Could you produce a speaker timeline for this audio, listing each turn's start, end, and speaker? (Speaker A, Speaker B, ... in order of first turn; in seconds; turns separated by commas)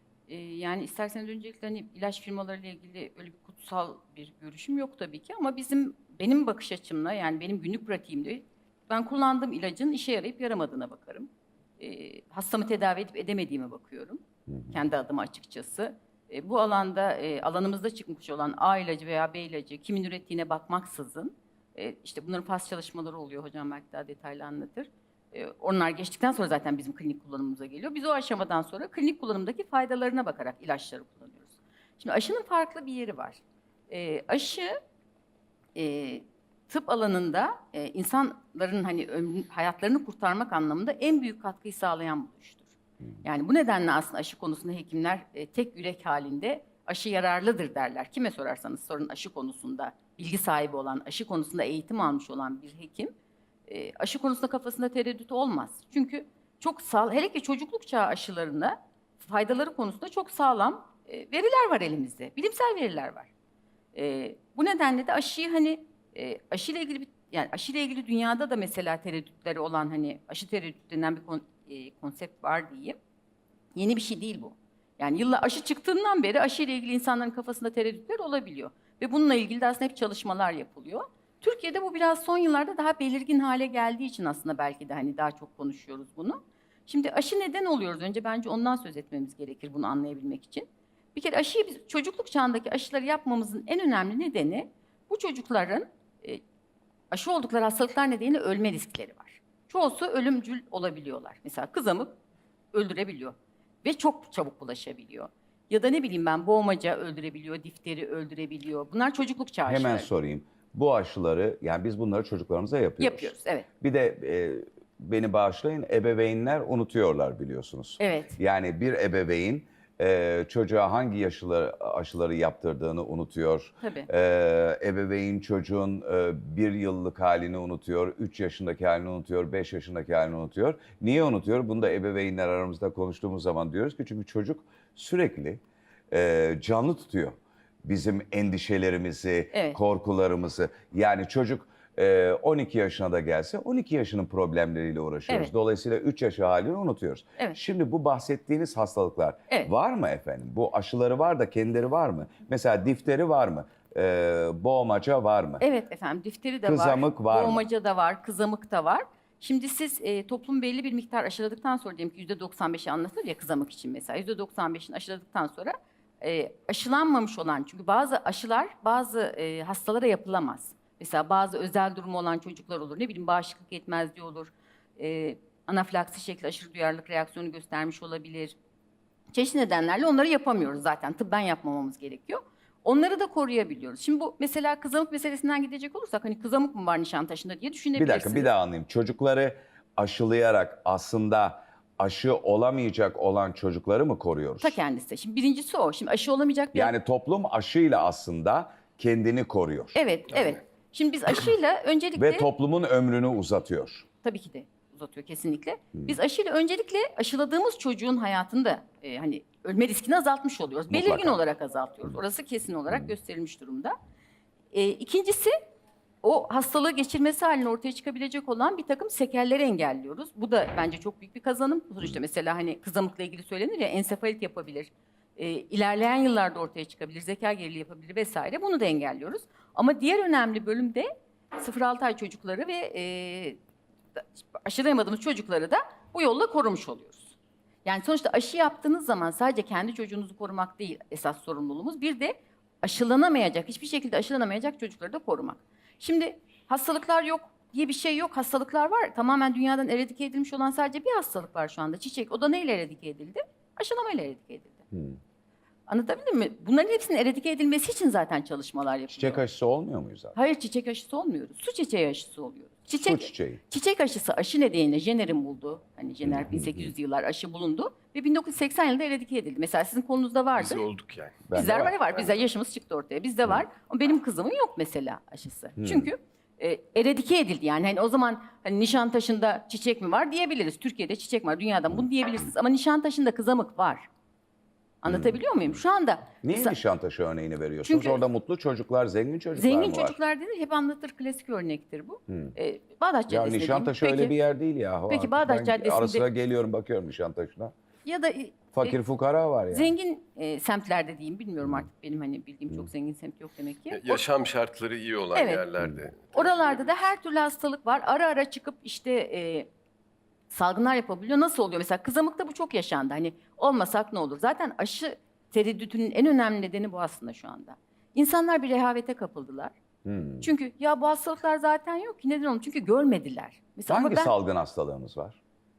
Speaker A: 0.3-34.7, Speaker A: 35.7-42.7, Speaker A: 43.2-53.1, Speaker A: 53.7-63.3, Speaker A: 63.9-73.0, Speaker A: 73.7-96.4, Speaker A: 97.1-102.1, Speaker A: 102.7-110.1, Speaker B: 109.7-155.6, Speaker A: 113.0-113.7, Speaker A: 118.0-118.4, Speaker A: 123.8-124.1, Speaker A: 139.5-139.8, Speaker A: 155.6-178.6, Speaker B: 156.6-157.6, Speaker A: 179.3-188.5, Speaker B: 187.9-194.8, Speaker A: 194.6-196.9, Speaker B: 196.7-200.0, Speaker A: 199.9-202.5, Speaker B: 202.2-204.1, Speaker A: 204.2-213.9, Speaker B: 210.9-211.4, Speaker A: 214.7-215.5, Speaker A: 216.2-233.6, Speaker A: 234.2-254.8, Speaker B: 254.9-255.2, Speaker A: 255.9-259.4, Speaker B: 259.1-260.4, Speaker A: 260.3-270.9, Speaker B: 263.0-263.6, Speaker B: 266.2-266.9, Speaker C: 270.6-271.5, Speaker B: 271.4-272.0, Speaker A: 271.5-284.1, Speaker B: 275.8-276.1, Speaker A: 285.0-286.8, Speaker B: 285.1-285.4, Speaker B: 286.4-290.2, Speaker A: 287.8-288.2, Speaker A: 289.5-294.4, Speaker B: 292.3-292.5, Speaker B: 293.3-297.7, Speaker A: 295.1-296.2, Speaker A: 298.0-299.0, Speaker B: 298.7-299.9, Speaker A: 299.7-304.2, Speaker C: 303.9-306.7, Speaker A: 305.3-305.7, Speaker B: 305.8-306.1, Speaker A: 306.3-309.7, Speaker A: 310.5-319.7, Speaker B: 320.0-320.5, Speaker A: 320.4-324.3, Speaker B: 323.9-325.4